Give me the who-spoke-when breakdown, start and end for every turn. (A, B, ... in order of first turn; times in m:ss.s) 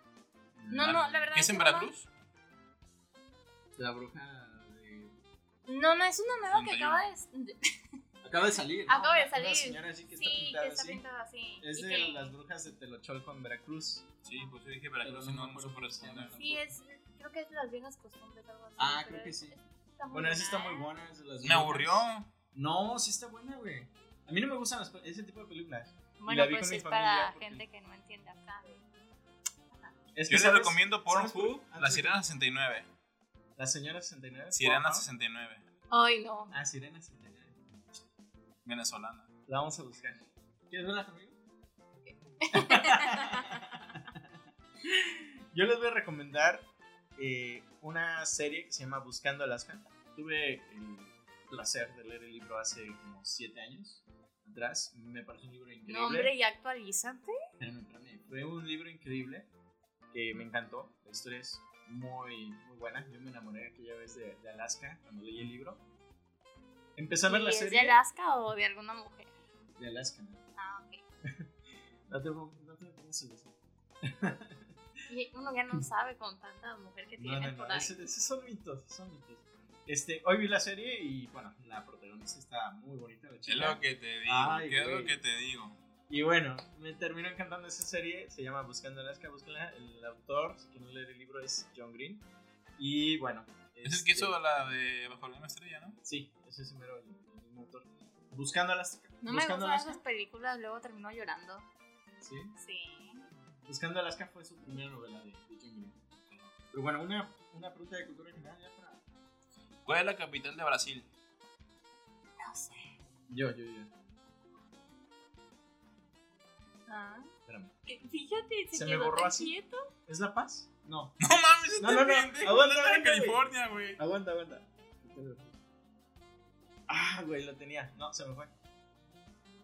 0:00.5-0:01.0 A
0:00.7-0:01.9 B
0:00.8-0:02.1 C
0:03.7-0:05.1 A
0:05.7-0:07.6 B
0:06.5-0:07.0 C
0:08.2-0:11.0 A
0:08.9-0:12.3 B
0:11.6-0:14.1 A
0:14.2-0:16.4 C
0:15.0-0:16.7 A
0:16.3-0:20.9 B
0:18.8-0:19.6 A
0:20.1-0:27.6 A
0:21.4-0:22.3 C
0:26.2-0:28.8 B
0:30.1-0:32.2 A
0:30.3-0:32.9 C
0:33.6-0:35.1 A
0:34.5-0:35.6 C
0:35.9-0:36.5 B
0:36.5-0:37.6 A
0:38.6-0:39.3 C
0:39.5-0:41.4 A
0:42.4-0:43.6 B
0:42.5-0:44.3 A
0:44.8-0:56.3 A
0:55.8-0:57.4 B
0:57.6-0:59.5 A
1:00.1-1:05.8 A
1:07.0-1:08.0 A
1:07.3-1:09.3 B
1:09.8-1:10.4 A
1:10.6-1:11.0 B
1:12.1-1:14.7 A
1:15.1-1:17.9 B
1:17.2-1:25.2 A
1:23.5-1:25.8 C
1:26.1-1:32.2 A
1:32.8-1:34.4 A
1:33.8-1:36.0 C
1:36.0-1:40.0 A
1:39.2-1:41.6 B
1:42.2-1:42.5 A
1:42.6-1:43.3 B
1:43.6-1:46.0 A
1:46.7-1:49.0 A
1:49.8-1:51.1 C
1:52.4-1:52.9 B
1:53.3-1:53.9 A
1:56.9-1:57.3 B
1:57.5-1:57.7 A
1:57.8-1:59.9 B
1:58.7-1:59.5 A
2:00.1-2:01.2 A
2:01.2-2:04.0 C
2:01.8-2:05.6 A
2:06.9-2:08.5 A